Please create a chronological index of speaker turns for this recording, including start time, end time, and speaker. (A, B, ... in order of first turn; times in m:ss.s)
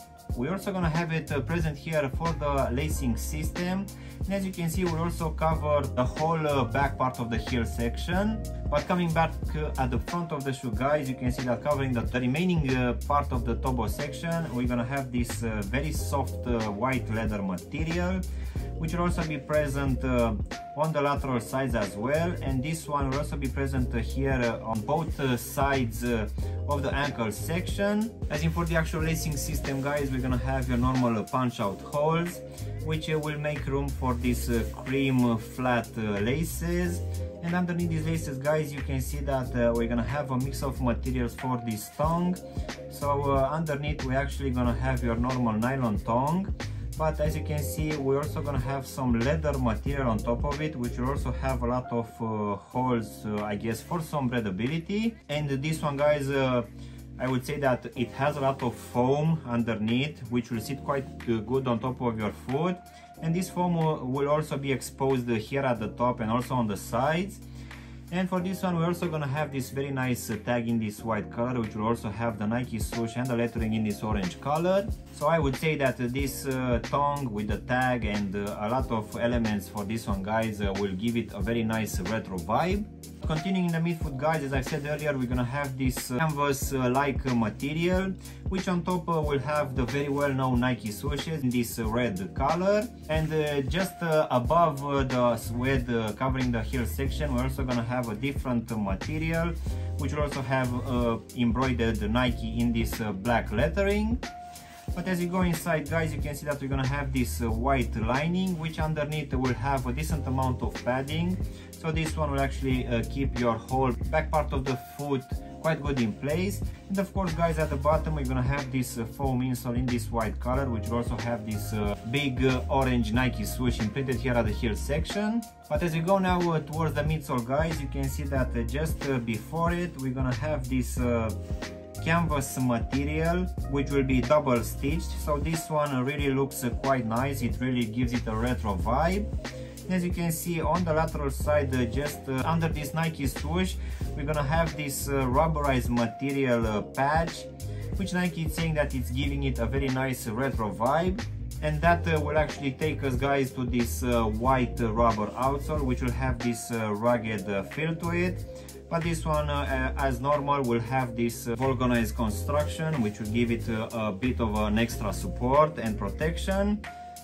0:00.3-0:18.2 A
0:18.8-0:56.6 A
0:57.2-1:07.4 A
1:08.1-1:44.2 A
1:44.9-2:11.3 A
2:12.0-2:19.3 A
2:19.9-2:46.8 A